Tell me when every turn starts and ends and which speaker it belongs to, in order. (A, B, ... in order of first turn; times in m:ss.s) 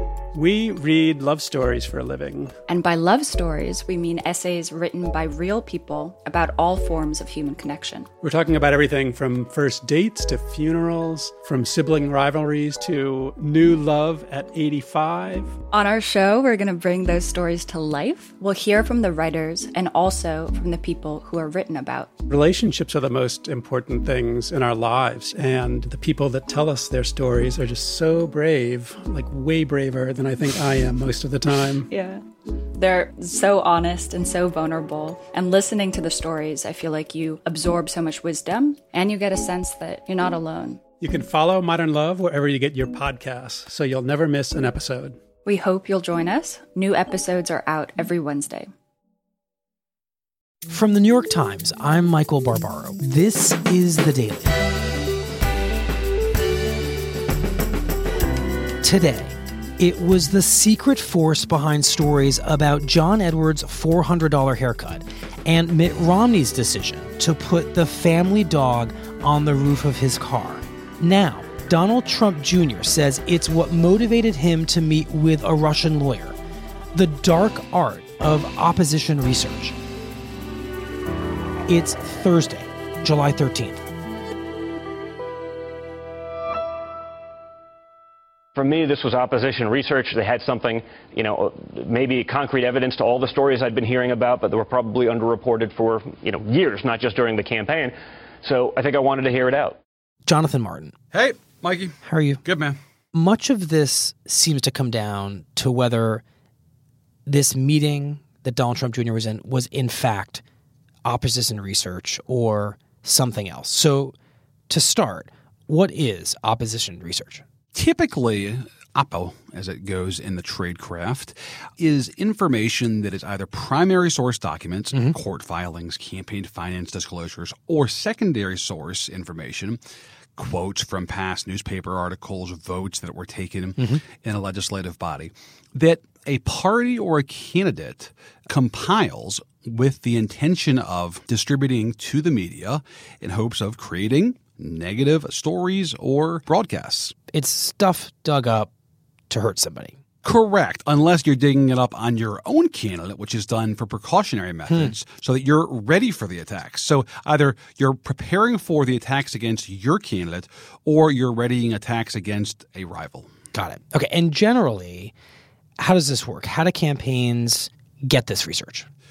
0:00.4-0:02.5 A
0:00.7-0:01.2 B
0:02.7-0:08.1 B
0:08.2-0:15.5 A
0:09.0-0:09.9 B
0:14.1-0:15.2 B
0:15.7-0:22.1 B
0:22.3-0:31.9 A
0:30.5-0:32.2 B
0:32.7-0:40.8 B
0:41.0-0:45.2 A
0:45.4-0:48.7 B
0:50.7-0:54.5 C
0:58.8-1:16.4 C
1:16.9-1:19.7 C
1:21.7-1:23.8 C
1:28.6-1:39.8 D
1:40.2-1:40.9 C
1:41.1-1:42.8 E
1:42.0-1:42.4 C
1:43.1-1:46.2 C
1:47.3-1:50.4 C
1:51.0-1:54.1 C
1:54.7-1:57.4 C
1:57.7-2:09.8 E
2:10.4-2:27.1 E
2:13.8-2:14.0 C
2:27.3-2:28.7 C
2:29.3-2:30.0 C
2:30.2-2:43.3 E
2:34.7-2:34.9 C
2:43.5-2:45.1 C
2:45.8-2:48.9 C